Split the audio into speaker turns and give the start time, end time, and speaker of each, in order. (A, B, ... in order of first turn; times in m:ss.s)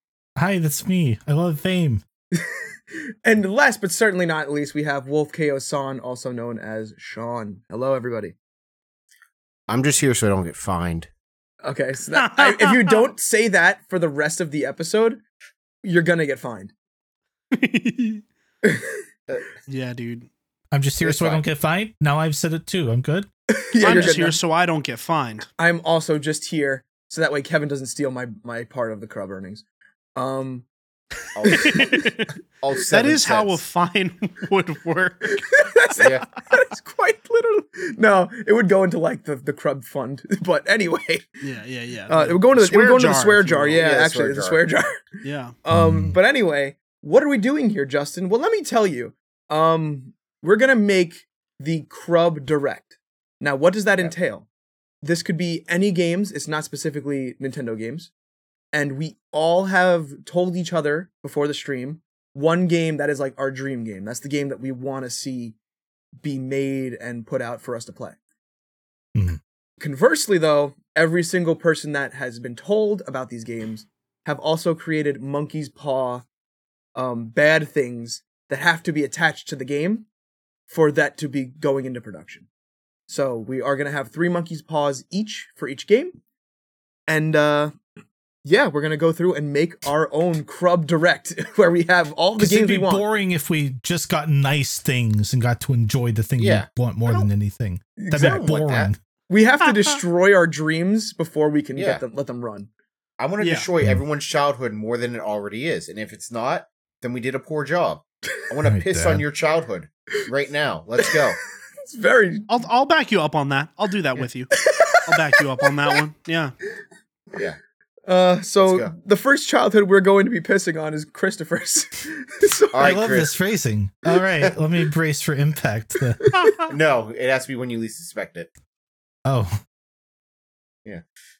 0:00.4-0:02.0 A
0:03.2-0:08.4 B
0:09.7-0:11.1 C
0:11.6-0:15.2 B
0:12.1-0:13.0 D
0:15.8-0:16.7 B
0:17.5-0:18.2 D
0:18.6-0:19.0 B
0:19.7-0:20.3 D
0:20.7-0:23.3 A
0:21.0-0:21.4 C
0:23.5-0:24.4 B
0:23.8-0:25.5 D
0:23.8-0:24.1 C
0:25.6-0:29.6 B
0:30.2-0:30.7 B
0:31.3-0:33.6 C
0:31.5-0:32.3 D
0:31.5-0:32.0 B
0:32.9-0:35.6 D
0:35.3-0:41.3 B
0:36.0-0:36.2 C
0:41.4-0:43.8 D
0:42.1-0:45.0 B
0:43.8-0:44.6 C
0:45.2-0:45.6 D
0:45.6-0:54.4 B
0:45.7-0:46.2 A
0:55.0-0:58.1 B
0:58.7-1:05.6 B
1:06.2-1:08.2 B
1:09.2-1:09.4 A
1:09.8-1:16.3 B
1:17.0-1:20.1 B
1:20.7-1:22.5 B
1:23.1-1:26.2 B
1:27.1-1:27.8 B
1:28.4-1:33.1 B
1:32.4-1:39.0 A
1:36.4-1:36.7 C
1:38.0-1:38.5 B
1:38.2-1:38.9 C
1:39.3-1:42.7 B
1:41.8-1:42.0 C
1:43.2-1:51.4 C
1:43.4-1:43.7 D
1:48.6-1:49.2 A
1:51.8-1:52.5 B
1:52.5-1:56.5 D
1:54.6-1:55.5 B
1:58.1-2:03.0 B
1:58.6-1:58.9 C
2:02.7-2:03.3 C
2:02.8-2:06.4 A
2:06.3-2:06.5 B
2:06.6-2:08.5 C
2:09.3-2:09.6 A